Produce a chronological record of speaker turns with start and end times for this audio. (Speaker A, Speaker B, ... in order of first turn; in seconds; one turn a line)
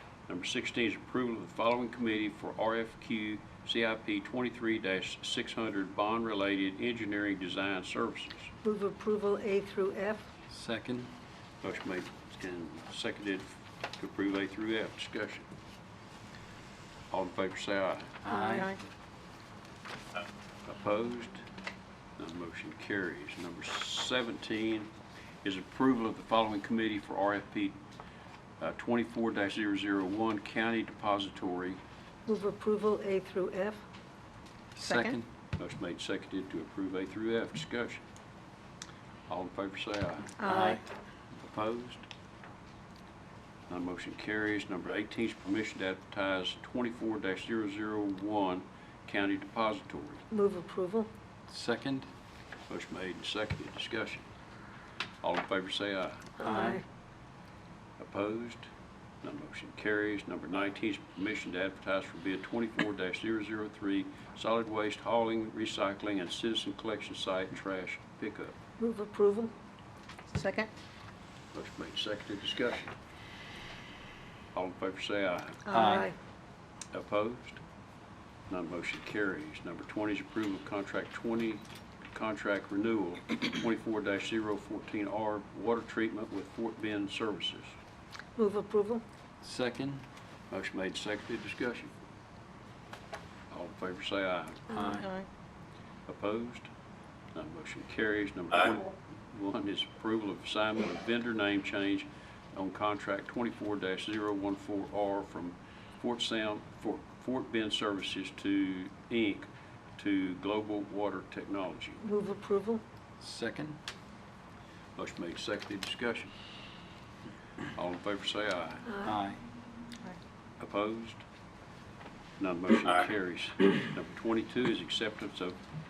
Speaker A: 0.3-8.5
Speaker B: 8.6-10.3
Speaker C: 10.5-11.1
Speaker A: 11.6-15.5
Speaker A: 17.1-18.2
Speaker C: 18.2-18.7
Speaker B: 18.3-18.5
Speaker A: 20.6-21.4
Speaker A: 22.2-24.9
Speaker A: 25.4-27.8
Speaker A: 28.6-31.8
Speaker B: 32.2-33.8
Speaker C: 34.8-35.2
Speaker D: 34.8-35.2
Speaker A: 35.6-38.0
Speaker A: 39.3-40.7
Speaker D: 40.4-40.8
Speaker C: 40.5-40.8
Speaker A: 41.4-42.0
Speaker A: 43.7-50.2
Speaker B: 50.3-51.1
Speaker C: 51.5-52.1
Speaker A: 52.7-54.2
Speaker A: 55.2-56.7
Speaker B: 56.4-56.8
Speaker C: 56.4-56.8
Speaker A: 58.0-58.7
Speaker A: 59.2-68.5
Speaker B: 68.8-69.5
Speaker D: 70.3-70.7
Speaker A: 71.5-72.9
Speaker A: 74.5-75.7
Speaker D: 75.7-76.0
Speaker C: 75.7-76.1
Speaker B: 75.8-76.1
Speaker A: 76.9-77.6
Speaker A: 78.5-87.7
Speaker B: 88.3-89.0
Speaker C: 89.4-90.0
Speaker A: 90.5-92.0
Speaker A: 93.5-94.8
Speaker B: 94.7-94.9
Speaker C: 94.7-95.0
Speaker D: 94.9-95.3
Speaker A: 96.1-96.7
Speaker A: 97.3-112.0
Speaker B: 112.0-112.8
Speaker C: 113.2-113.8
Speaker A: 115.0-116.3
Speaker A: 117.7-118.9
Speaker C: 119.0-119.4
Speaker A: 120.6-121.2
Speaker A: 122.4-125.6